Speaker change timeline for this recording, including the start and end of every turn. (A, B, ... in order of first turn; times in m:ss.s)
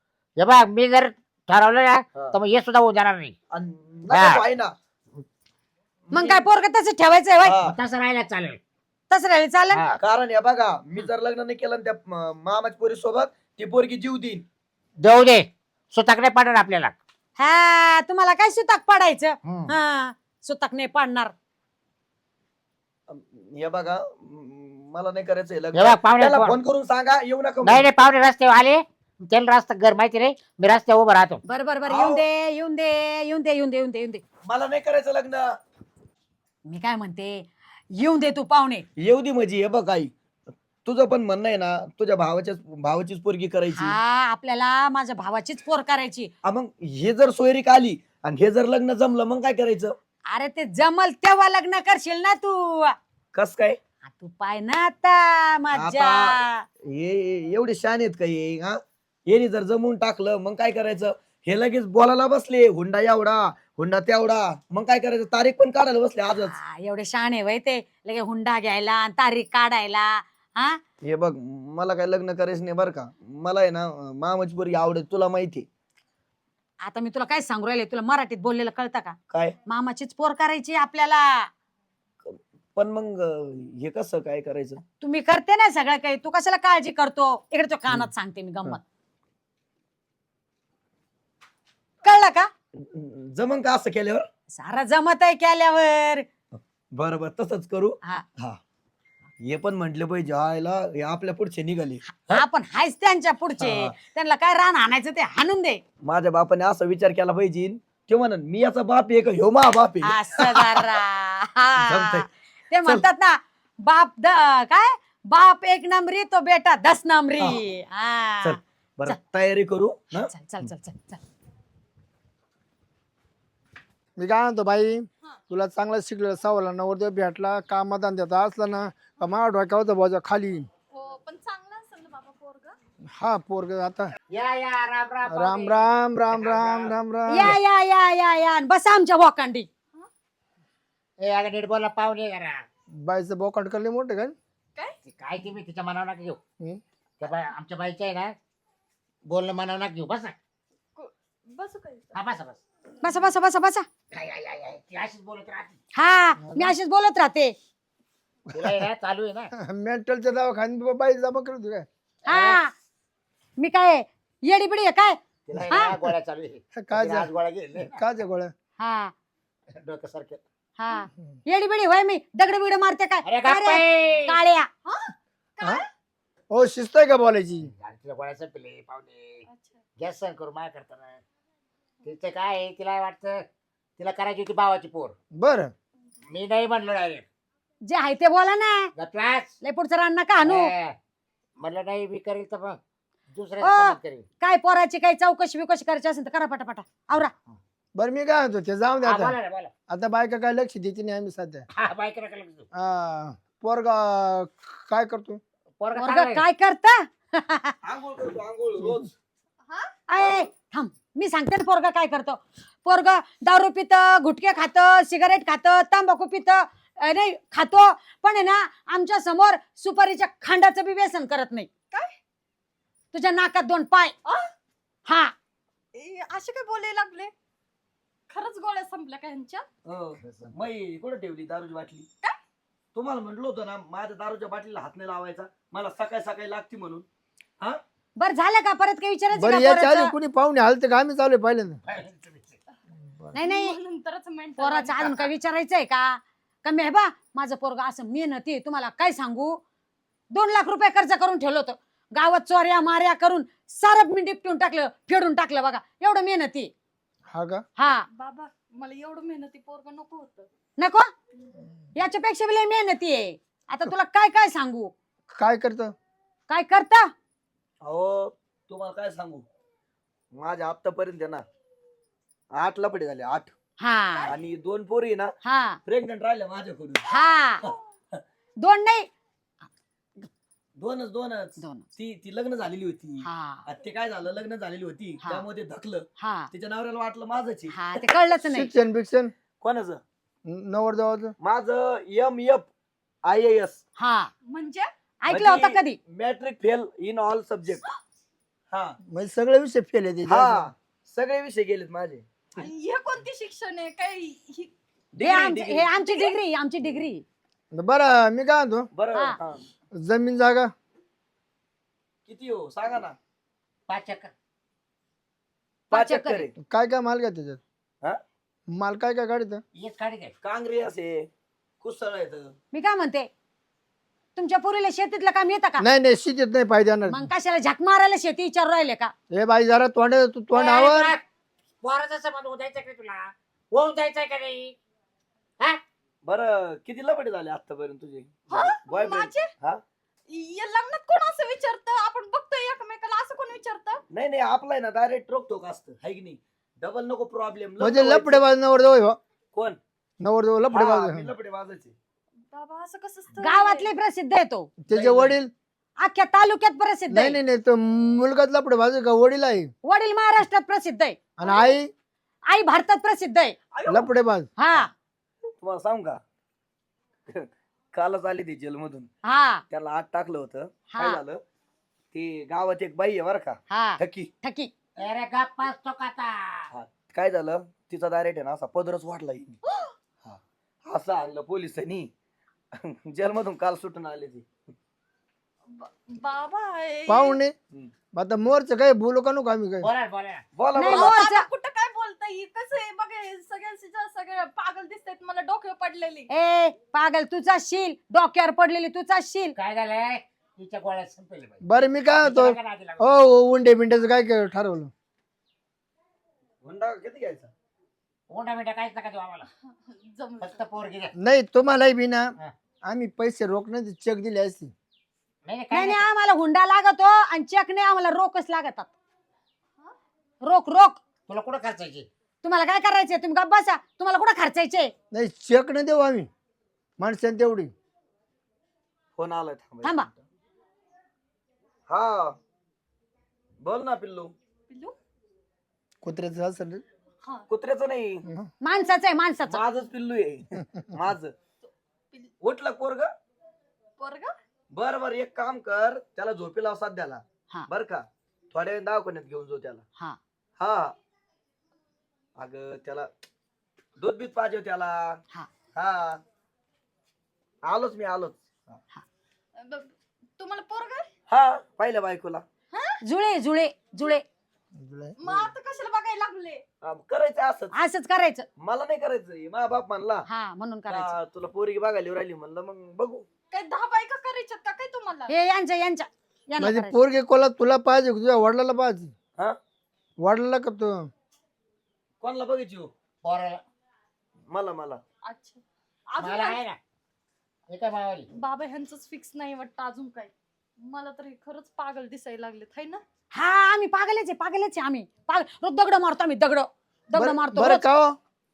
0:00.4-0:03.4 A
0:03.5-0:04.7 B
0:04.1-0:04.4 A
0:06.1-0:06.4 B
0:06.1-0:07.6 C
0:07.4-0:07.8 B
0:07.7-0:08.6 A
0:09.1-0:09.8 C
0:09.7-0:10.0 A
0:10.0-0:14.4 B
0:15.0-0:16.9 A
0:17.4-0:21.3 C
0:19.4-0:19.8 A
0:23.1-0:27.9 B
0:25.7-0:26.6 A
0:27.6-0:31.4 A
0:31.4-0:34.2 C
0:31.9-0:32.2 B
0:34.4-0:35.6 B
0:36.7-0:38.8 C
0:39.0-0:40.1 B
0:40.8-0:44.0 B
0:43.8-0:46.3 C
0:46.4-0:50.0 B
0:50.3-0:53.0 C
0:53.3-0:53.8 B
0:54.1-0:56.6 C
0:55.7-1:06.6 B
1:06.4-1:10.8 C
1:11.0-1:15.7 B
1:16.8-1:21.5 C
1:19.3-1:19.6 B
1:22.2-1:24.8 B
1:25.0-1:28.8 C
1:32.0-1:32.5 C
1:32.8-1:34.3 B
1:34.5-1:36.3 C
1:37.0-1:38.6 B
1:39.5-1:42.4 B
1:42.1-1:45.8 C
1:43.6-1:43.9 B
1:46.0-1:51.0 B
1:50.0-1:59.2 C
1:51.8-1:52.3 B
1:58.4-2:00.3 B
2:00.1-2:01.2 C
2:04.2-2:10.7 D
2:10.9-2:12.8 E
2:13.1-2:14.1 D
2:14.3-2:17.6 A
2:15.3-2:17.6 D
2:17.3-2:19.7 C
2:21.2-2:22.6 A
2:22.9-2:24.4 D
2:25.0-2:26.4 A
2:27.2-2:28.4 A
2:29.3-2:30.4 A
2:31.0-2:32.2 E
2:32.2-2:32.6 A
2:33.0-2:33.9 C
2:34.1-2:35.8 A
2:35.9-2:37.6 C
2:36.4-2:36.8 D
2:38.5-2:38.8 D
2:38.6-2:39.5 A
2:39.6-2:41.9 D
2:42.3-2:42.7 C
2:42.3-2:42.6 A
2:43.6-2:45.2 C
2:45.5-2:48.0 A
2:45.7-2:46.0 C
2:46.8-2:48.5 D
2:48.8-2:49.1 C
2:49.7-2:50.4 A
2:50.8-2:54.7 C
2:53.2-2:54.4 A
2:54.9-2:55.8 E
2:56.5-2:57.7 D
2:57.6-2:59.4 A
2:59.5-2:59.8 E
3:00.0-3:01.2 A
3:02.0-3:03.5 A
3:04.0-3:05.2 A
3:05.3-3:05.7 D
3:06.3-3:07.2 A
3:07.8-3:08.9 C
3:09.0-3:09.6 A
3:09.6-3:10.7 C
3:10.4-3:11.0 A
3:11.6-3:12.8 A
3:13.3-3:14.3 A
3:13.6-3:17.3 C
3:18.0-3:19.4 D
3:19.0-3:19.7 A
3:19.9-3:21.7 D
3:21.7-3:22.7 A
3:22.7-3:25.4 D
3:25.8-3:26.5 A
3:26.0-3:27.7 C
3:27.8-3:29.1 B
3:30.1-3:41.7 C
3:30.2-3:30.5 B
3:43.1-3:44.2 C
3:44.3-3:44.5 E
3:45.1-3:45.4 C
3:46.0-3:47.3 E
3:48.3-3:49.7 E
3:49.8-3:52.1 B
3:50.2-3:50.5 A
3:53.0-3:57.1 B
3:58.2-4:00.1 C
3:59.3-4:01.8 D
4:01.8-4:02.6 A
4:03.1-4:03.4 D
4:03.3-4:03.8 C
4:03.4-4:05.3 E
4:04.6-4:09.6 C
4:10.3-4:16.7 C
4:17.3-4:17.6 D
4:17.8-4:18.0 C
4:18.1-4:20.5 E
4:20.8-4:21.1 C
4:22.0-4:24.9 C
4:25.3-4:25.9 D
4:26.5-4:27.1 C
4:27.8-4:29.4 B
4:30.4-4:31.4 B
4:32.6-4:33.5 B
4:33.8-4:34.3 C
4:34.3-4:35.3 B
4:35.4-4:35.8 C
4:35.9-4:37.1 B
4:37.1-4:37.6 C
4:37.6-4:38.2 B
4:38.6-4:39.1 C
4:40.8-4:48.0 B
4:41.6-4:41.9 C
4:43.2-4:43.6 C
4:46.2-4:46.5 C
4:47.7-4:48.7 C
4:48.4-4:49.3 D
4:49.6-4:50.0 B
4:50.4-4:51.4 D
4:51.4-4:52.7 B
4:53.3-4:53.8 B
4:54.0-4:54.3 C
4:54.5-4:54.9 E
4:55.2-4:56.0 C
4:55.3-4:57.8 B
4:58.7-4:59.0 B
4:59.0-5:00.7 D
5:00.2-5:02.3 B
5:02.6-5:04.7 E
5:05.1-5:05.9 B
5:05.2-5:07.2 C
5:06.1-5:06.3 E
5:07.7-5:08.9 D
5:08.9-5:09.6 B
5:09.9-5:10.7 D
5:12.3-5:13.2 B
5:13.9-5:14.3 A
5:15.9-5:16.5 B
5:15.9-5:16.5 C
5:16.6-5:17.6 D
5:18.7-5:19.6 D
5:19.8-5:20.3 A
5:20.4-5:21.3 B
5:21.8-5:22.5 B
5:22.7-5:23.3 C
5:24.4-5:25.8 C
5:25.8-5:27.3 D
5:27.1-5:29.1 C
5:29.3-5:31.2 D
5:30.5-5:31.2 A
5:31.8-5:34.8 A
5:36.2-5:39.8 B
5:38.5-5:39.5 E
5:40.3-5:44.0 E
5:44.1-5:48.4 B
5:47.8-5:49.2 D
5:49.5-5:49.8 B
5:50.2-5:51.3 D
5:50.7-5:52.0 B
5:52.5-5:53.9 E
5:53.4-5:54.7 C
5:54.8-5:55.5 D
5:54.9-5:55.4 B
5:56.0-5:57.4 C
5:57.1-5:59.7 D
5:59.8-6:01.2 C
6:01.4-6:01.9 D
6:01.4-6:01.8 E
6:02.5-6:03.6 C
6:03.8-6:04.1 B
6:03.9-6:04.5 D
6:04.6-6:04.9 C
6:05.6-6:06.2 B
6:07.3-6:09.1 B
6:09.2-6:09.6 C
6:09.7-6:11.4 B
6:10.9-6:11.2 C
6:12.1-6:14.3 B
6:13.7-6:14.7 C
6:15.0-6:16.7 A
6:16.7-6:19.6 B
6:20.2-6:22.1 B
6:22.8-6:24.5 B
6:25.7-6:27.4 E
6:27.1-6:27.5 D
6:28.1-6:29.9 D
6:29.8-6:30.4 A
6:30.6-6:31.2 B
6:30.8-6:31.5 C
6:30.9-6:36.3 E
6:36.3-6:39.6 C
6:39.6-6:43.2 A
6:41.6-6:44.9 D
6:46.6-6:47.5 B
6:48.3-6:49.5 A
6:49.9-6:50.6 E
6:50.4-6:51.1 A
6:51.2-6:52.3 D
6:52.8-6:54.7 D
6:55.4-6:56.1 A
6:55.7-6:58.9 C
7:00.4-7:01.0 C
7:01.3-7:02.1 A
7:02.4-7:04.9 C
7:05.1-7:06.3 D
7:07.0-7:07.7 D
7:09.2-7:10.2 B
7:11.9-7:12.4 B
7:13.6-7:14.3 B
7:14.7-7:14.9 E
7:16.0-7:16.8 D
7:17.5-7:18.2 B
7:18.6-7:19.6 C
7:19.5-7:21.3 B
7:21.6-7:22.3 E
7:22.4-7:23.1 B
7:24.0-7:24.3 E
7:24.7-7:29.8 B
7:30.6-7:31.0 B
7:32.4-7:33.1 B
7:34.0-7:35.2 B
7:35.8-7:36.2 B
7:37.6-7:38.8 B
7:39.6-7:41.1 E
7:41.3-7:42.4 B
7:42.7-7:43.0 E
7:43.0-7:44.2 C
7:44.8-7:45.2 D
7:45.2-7:46.6 E
7:46.8-7:47.8 B
7:47.7-7:48.5 C
7:48.6-7:50.3 B
7:50.3-7:51.1 C
7:50.9-7:53.3 B
7:53.5-7:55.3 E
7:55.3-7:57.0 C
7:56.6-7:59.1 D
8:00.2-8:01.1 D
8:02.2-8:02.9 B
8:03.2-8:03.6 A
8:04.5-8:05.0 B
8:05.3-8:05.6 E
8:06.1-8:06.6 E
8:06.2-8:06.8 A
8:07.7-8:08.3 A
8:08.3-8:13.0 E
8:13.3-8:17.8 C
8:17.2-8:18.2 D